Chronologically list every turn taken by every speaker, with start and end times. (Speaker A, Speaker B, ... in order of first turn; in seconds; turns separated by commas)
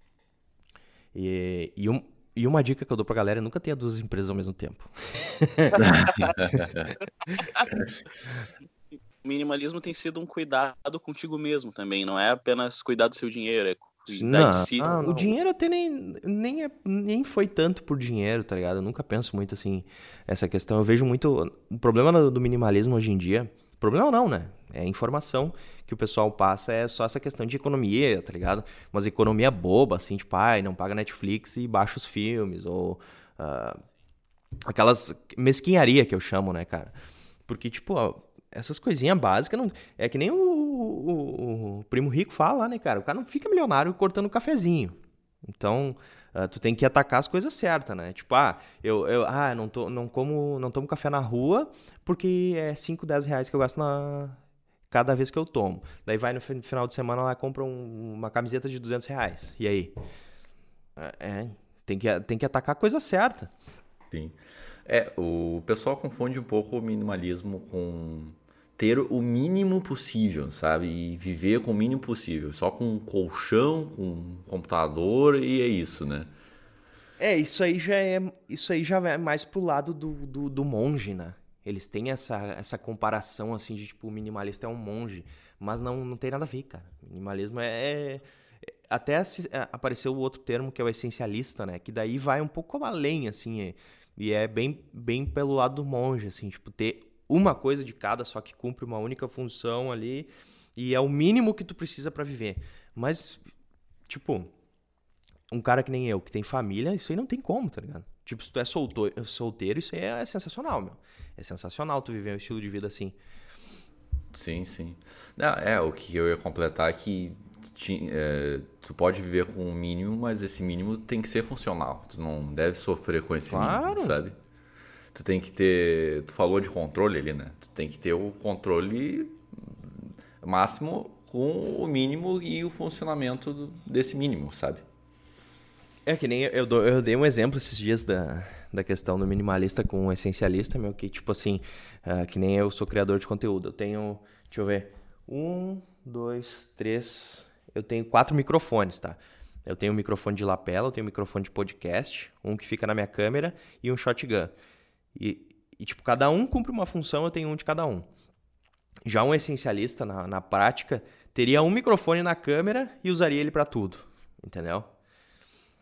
Speaker A: 1.1-6.7, Speaker B: 5.8-6.3, Speaker C: 5.8-6.9, Speaker B: 7.0-7.7, Speaker B: 9.2-15.3, Speaker A: 14.1-33.8, Speaker A: 34.6-36.9, Speaker A: 37.5-45.0, Speaker A: 45.5-59.9, Speaker A: 61.0-63.5, Speaker C: 64.1-76.3, Speaker A: 77.2-88.2, Speaker A: 88.9-103.4, Speaker A: 104.1-104.5, Speaker A: 105.5-113.2, Speaker C: 114.3-124.3, Speaker A: 123.5-124.2, Speaker C: 125.1-134.8, Speaker A: 136.1-154.5, Speaker A: 155.1-158.1, Speaker A: 159.1-164.9